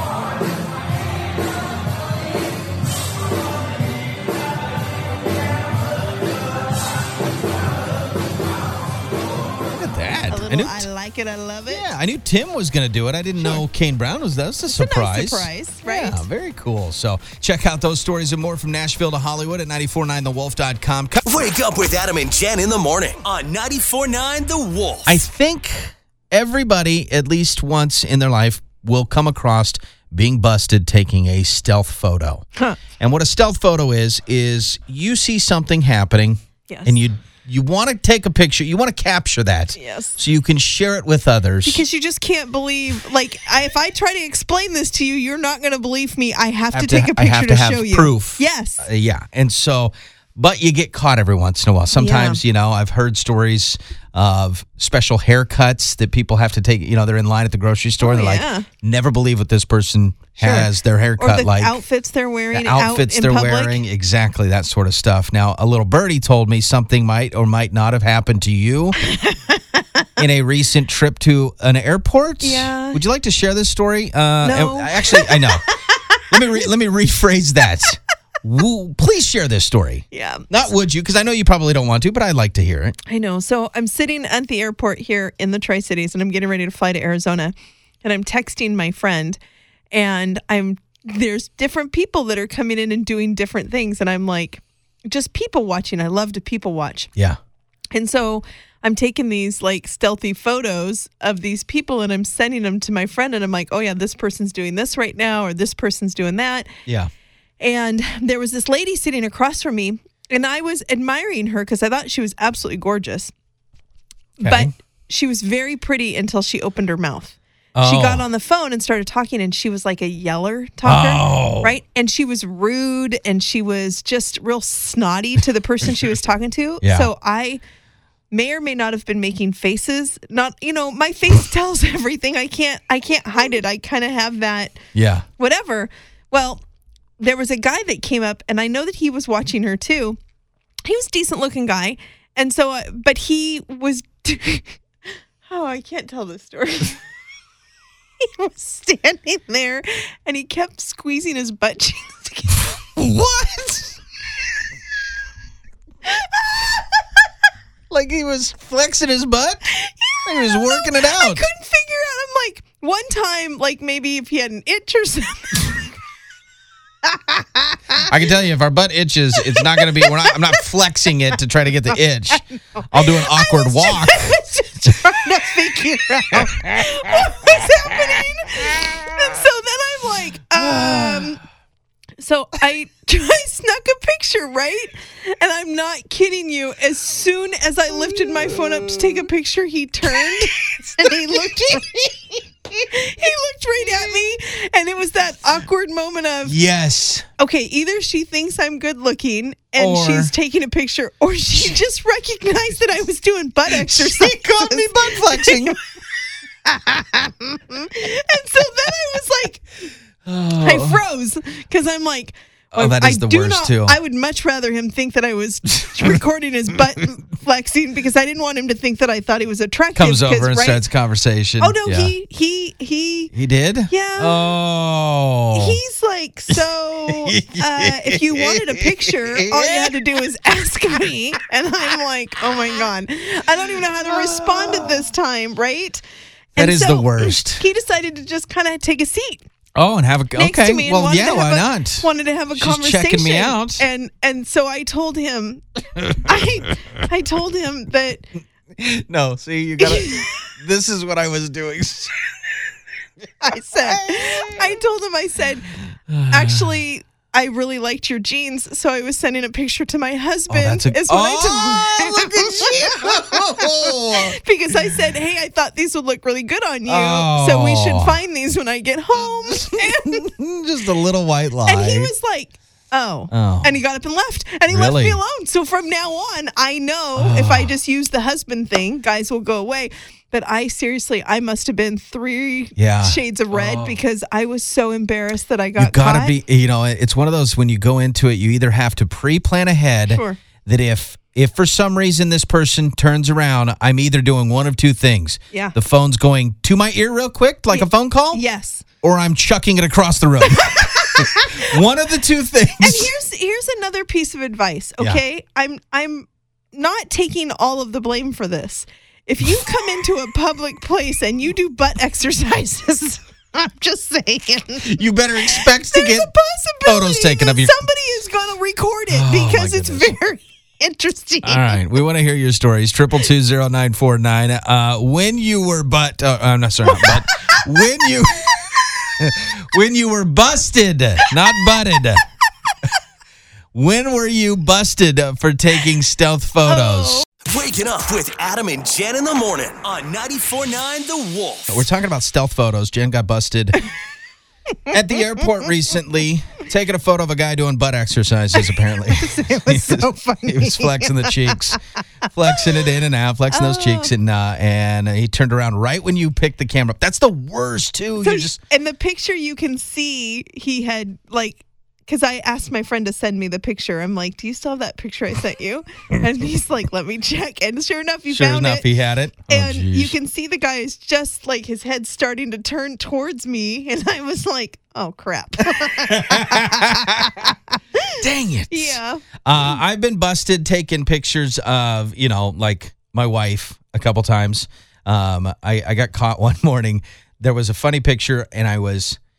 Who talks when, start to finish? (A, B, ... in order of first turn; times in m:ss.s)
0:09.7-0:10.9 A
0:10.3-0:11.9 B
0:11.7-0:21.2 A
0:14.7-0:16.2 B
0:21.2-0:25.2 C
0:25.1-0:32.5 A
0:33.0-0:41.8 A
0:36.7-0:37.0 B
0:39.8-0:40.2 B
0:41.6-0:48.9 B
0:46.7-1:01.8 A
0:52.0-0:52.4 B
0:58.0-0:58.7 B
1:00.4-1:03.8 B
1:02.5-1:09.0 A
1:09.0-1:10.1 B
1:10.2-1:15.7 A
1:12.4-1:13.0 B
1:14.4-1:16.6 B
1:16.3-1:23.0 A
1:20.1-1:20.5 B
1:23.1-1:29.4 B
1:29.9-1:37.1 B
1:37.9-1:46.7 B
1:46.9-1:47.1 A
1:47.6-1:53.3 B
1:54.4-2:07.6 B
1:54.4-1:54.7 A
1:57.8-1:58.2 A
2:00.8-2:01.8 A
2:06.8-2:07.1 A
2:08.3-2:14.8 B
2:14.9-2:15.3 A
2:15.4-2:16.6 B
2:17.2-2:20.2 B
2:20.8-2:24.8 B
2:25.5-2:27.0 B
2:28.2-2:32.7 B
2:33.0-2:34.0 A
2:36.1-2:36.9 B
2:37.9-2:39.7 A
2:39.7-2:45.8 B
2:40.2-2:41.4 A
2:47.0-2:48.1 B
2:48.0-2:55.2 A
2:49.4-2:50.6 B
2:52.4-3:01.4 B
2:56.3-2:58.2 A
3:00.6-3:01.4 A
3:02.2-3:16.6 B
3:10.7-3:11.2 A
3:16.5-3:17.3 A
3:17.4-3:25.8 B
3:19.8-3:20.3 A
3:23.7-3:25.8 A
3:27.0-3:29.6 B
3:30.2-3:31.0 A
3:30.6-3:40.8 B
3:32.7-3:34.0 A
3:35.8-3:36.2 A
3:40.0-3:42.1 A
3:41.6-3:43.3 B
3:43.3-3:45.8 A
3:43.9-3:44.5 B
3:45.5-3:56.0 B
3:46.5-3:50.0 A
3:54.0-3:55.1 A
3:56.6-3:59.5 B
3:56.6-3:57.6 A
3:59.8-4:03.8 A
4:00.4-4:08.2 B
4:08.8-4:12.2 A
4:09.8-4:10.4 B
4:13.4-4:15.7 B
4:13.4-4:14.7 A
4:16.1-4:16.8 A
4:16.3-4:30.3 B
4:20.5-4:24.4 A
4:26.9-4:28.2 A
4:29.5-4:32.1 A
4:31.7-4:46.4 B
4:33.3-4:33.8 A
4:34.7-4:35.2 A
4:37.2-4:37.7 A
4:42.8-4:44.0 A
4:45.8-4:58.4 A
4:50.1-4:50.4 B
4:57.7-4:58.8 B
4:59.0-5:03.1 A
5:00.6-5:01.7 B
5:02.8-5:21.8 B
5:14.8-5:16.3 A
5:16.8-5:17.8 A
5:19.1-5:20.2 A
5:21.4-5:32.2 A
5:26.9-5:27.6 B
5:33.7-5:37.2 A
5:36.7-5:37.2 B
5:37.4-5:41.9 C
5:41.7-5:43.8 A
5:44.9-5:51.8 A
5:48.6-5:51.8 B
5:52.3-5:58.6 A
5:53.5-5:54.1 B
5:58.2-6:08.9 B
6:08.3-6:10.2 A
6:09.5-6:19.3 B
6:15.7-6:17.5 A
6:18.2-6:29.2 A